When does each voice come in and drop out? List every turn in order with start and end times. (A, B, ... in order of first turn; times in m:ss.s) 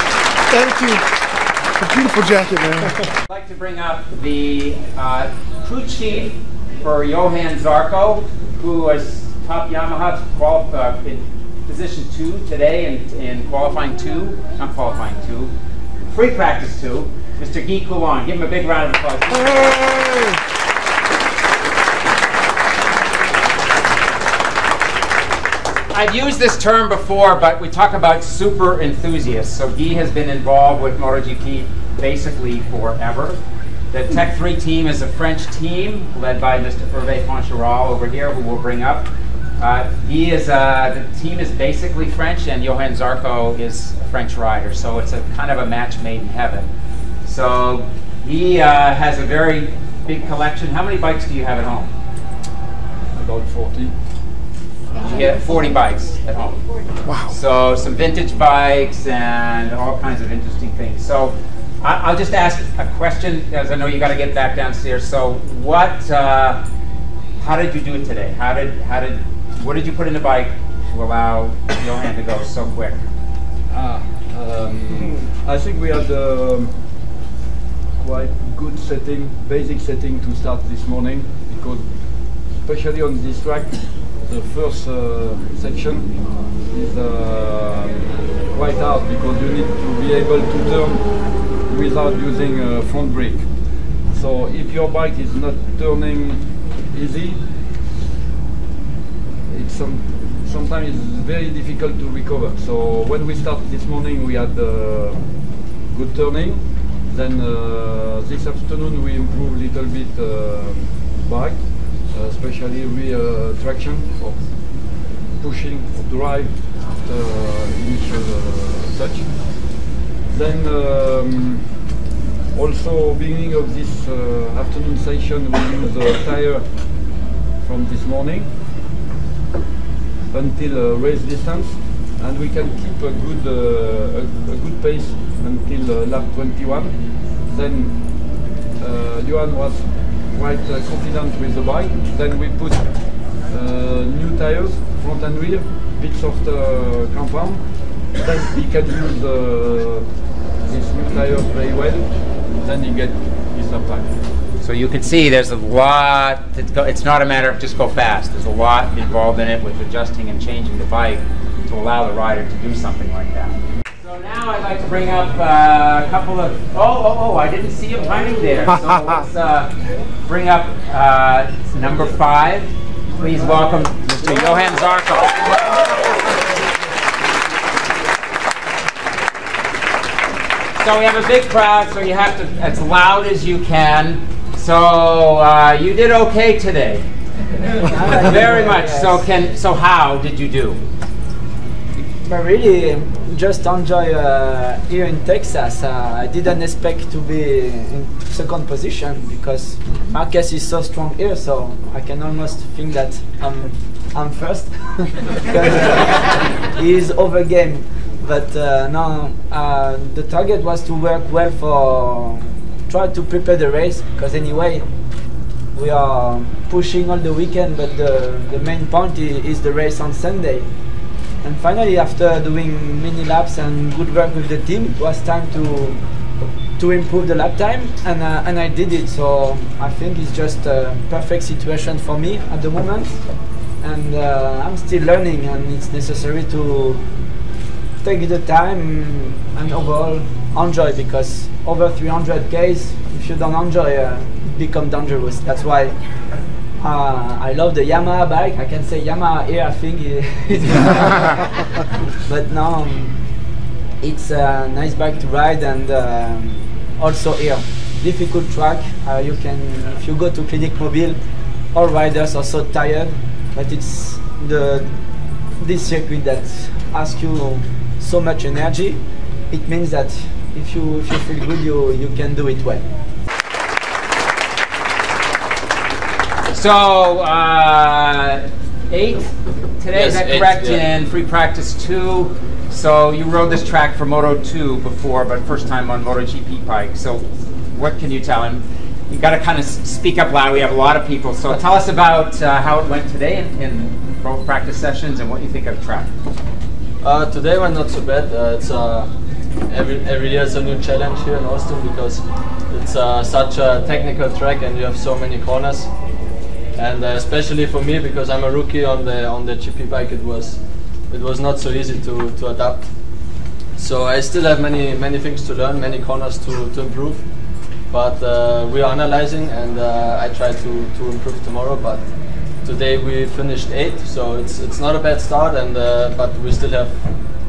0:00.5-0:01.0 A
0:01.8-0:03.0 A
0:03.3-0:15.5 B
0:16.1-0:20.0 B
0:25.9-0:33.4 B
0:33.9-0:46.7 B
0:47.2-0:51.9 B
0:53.1-0:53.9 C
0:55.0-0:56.6 B
0:57.0-0:57.4 A
0:57.3-1:06.6 B
1:07.4-1:13.0 B
1:13.7-1:16.8 C
1:18.0-1:37.4 C
1:39.5-1:59.7 C
2:00.3-2:01.8 C
2:02.5-2:08.5 C
2:10.3-2:30.1 C
2:30.6-2:34.1 C
2:34.6-2:49.7 B
2:50.3-2:55.4 B
3:00.8-3:07.1 B
3:07.8-3:09.2 D
3:08.1-3:10.8 B
3:12.2-3:34.8 D
3:35.7-3:40.7 D
3:41.4-3:46.0 D
3:46.8-3:53.2 D
3:53.8-3:57.0 D
3:58.0-4:06.0 D
4:06.8-4:11.4 D
4:12.3-4:13.1 D
4:14.0-4:21.2 D
4:21.7-4:24.9 D
4:25.6-4:32.8 D
4:36.5-4:56.1 B
4:57.0-4:59.1 E
4:59.7-5:05.9 E
5:06.8-5:10.6 E
5:11.1-5:12.8 E
5:13.8-5:17.2 E
5:17.9-5:22.0 E
5:22.6-5:26.9 E